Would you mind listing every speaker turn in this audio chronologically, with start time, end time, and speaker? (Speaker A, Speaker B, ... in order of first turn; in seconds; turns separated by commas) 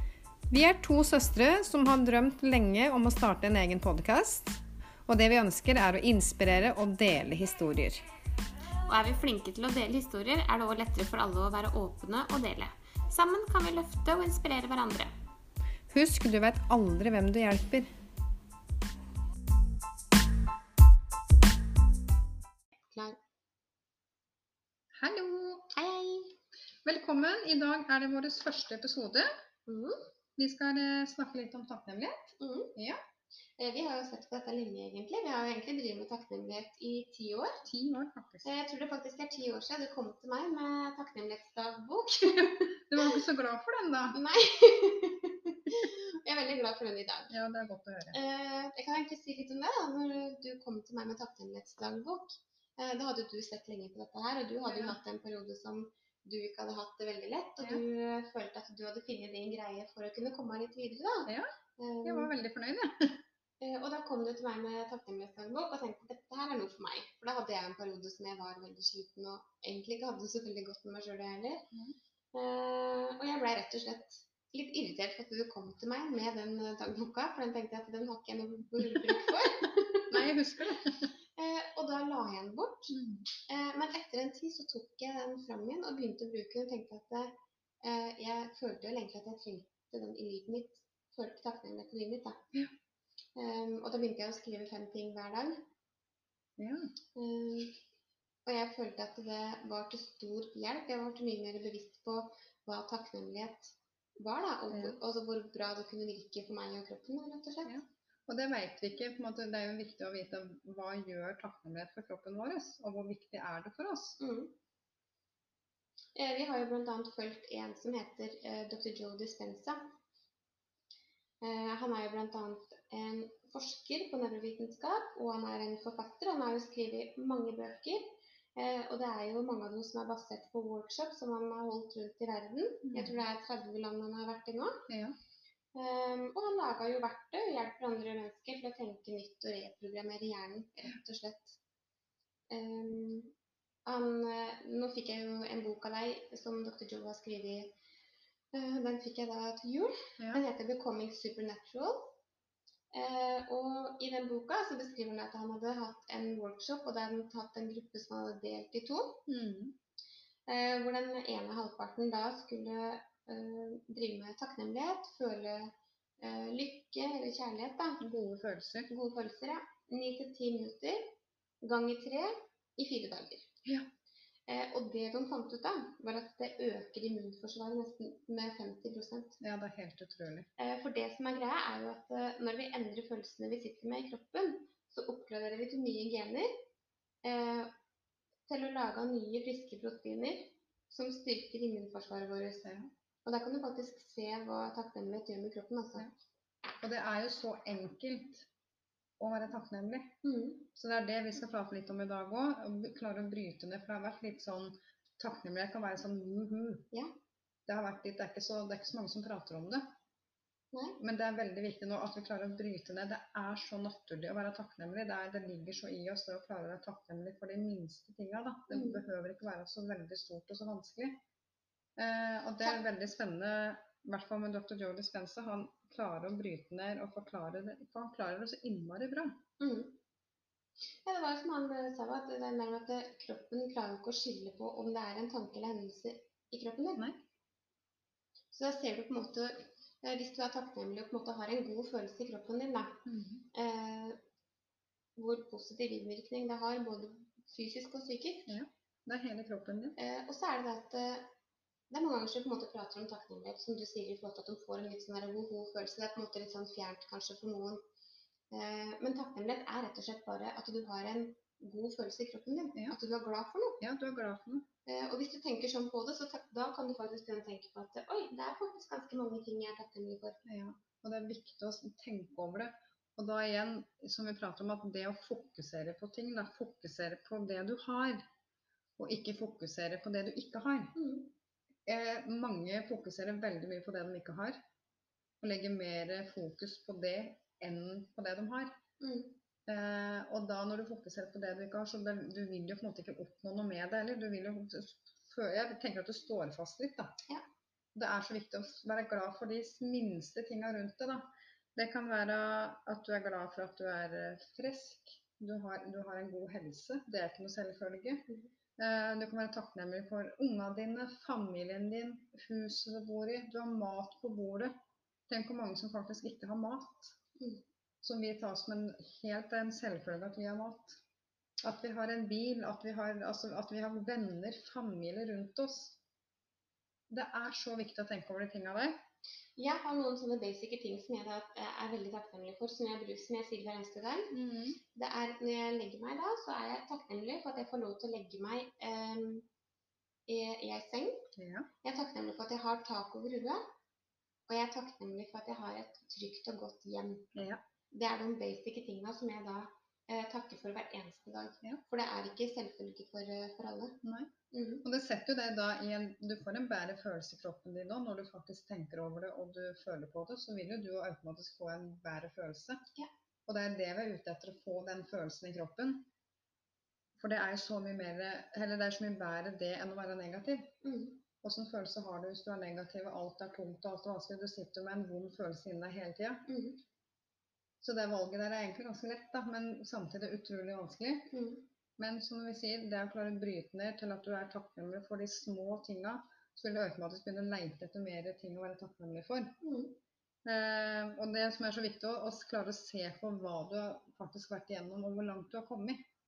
Speaker A: 0.5-8.0, Speaker B: 8.9-15.1, Speaker A: 15.9-17.9, Speaker B: 22.9-23.2, Speaker A: 24.9-25.7, Speaker B: 25.7-26.4, Speaker A: 26.9-29.3, Speaker B: 29.7-30.0, Speaker A: 30.4-33.0, Speaker B: 32.4-32.7, Speaker B: 33.6-37.6, Speaker A: 37.6-38.5, Speaker B: 38.5-43.2, Speaker A: 42.7-44.2, Speaker B: 44.1-47.4, Speaker A: 47.3-48.2, Speaker B: 48.1-62.3, Speaker A: 54.7-55.0, Speaker A: 61.3-61.5, Speaker A: 62.0-63.2, Speaker B: 63.6-71.7, Speaker B: 72.3-80.3, Speaker A: 80.1-81.1, Speaker B: 81.4-92.5, Speaker A: 82.9-83.3, Speaker B: 93.4-95.7, Speaker A: 96.6-96.9, Speaker B: 97.2-97.8, Speaker B: 98.5-107.8, Speaker A: 104.7-105.0, Speaker A: 107.7-114.2, Speaker B: 114.2-114.5, Speaker B: 116.2-119.9, Speaker B: 121.4-134.9, Speaker A: 132.9-133.2, Speaker A: 134.9-135.2, Speaker B: 135.8-141.6, Speaker B: 142.5-143.3, Speaker B: 143.8-147.8, Speaker B: 148.5-152.2, Speaker B: 152.9-159.2, Speaker A: 159.3-159.8, Speaker B: 160.5-168.0, Speaker A: 168.0-168.9, Speaker B: 168.9-173.5, Speaker B: 174.5-179.4, Speaker A: 179.4-180.5, Speaker B: 180.6-186.5, Speaker B: 187.2-187.7, Speaker B: 188.5-192.7, Speaker A: 192.6-192.9, Speaker B: 193.2-196.1, Speaker A: 196.8-198.5, Speaker A: 199.2-200.2, Speaker B: 200.2-200.7, Speaker A: 200.8-206.9, Speaker A: 207.7-209.9, Speaker B: 210.7-211.0, Speaker A: 211.0-221.2, Speaker B: 218.7-219.1, Speaker A: 222.0-229.4, Speaker B: 229.6-230.0, Speaker B: 231.0-237.1, Speaker B: 238.5-244.2, Speaker A: 243.1-243.5, Speaker B: 245.2-248.5, Speaker A: 248.5-250.0, Speaker B: 250.0-251.3, Speaker B: 251.9-257.8, Speaker B: 258.5-263.8, Speaker A: 263.8-264.7, Speaker B: 264.9-270.4, Speaker A: 270.4-278.2, Speaker A: 279.0-280.9, Speaker B: 280.9-281.3, Speaker A: 281.9-284.6, Speaker A: 285.4-288.8, Speaker B: 289.0-289.4, Speaker A: 289.7-297.2, Speaker A: 297.9-308.3, Speaker A: 308.8-314.7, Speaker A: 315.3-317.2, Speaker A: 318.0-321.0, Speaker A: 321.6-326.0, Speaker A: 327.1-329.0, Speaker B: 329.6-334.4, Speaker A: 334.3-334.8, Speaker B: 334.9-339.5, Speaker B: 340.3-341.3, Speaker A: 341.4-341.7, Speaker B: 341.8-343.6, Speaker B: 344.5-347.3, Speaker A: 347.3-347.6, Speaker B: 347.9-354.9, Speaker A: 354.0-354.3, Speaker A: 354.8-362.8, Speaker A: 363.5-366.1, Speaker A: 367.2-370.7, Speaker B: 370.8-371.2, Speaker A: 371.4-376.4, Speaker B: 376.5-376.8, Speaker A: 377.8-381.3, Speaker B: 381.3-381.7, Speaker A: 382.0-389.6, Speaker B: 389.6-390.0, Speaker A: 390.4-396.0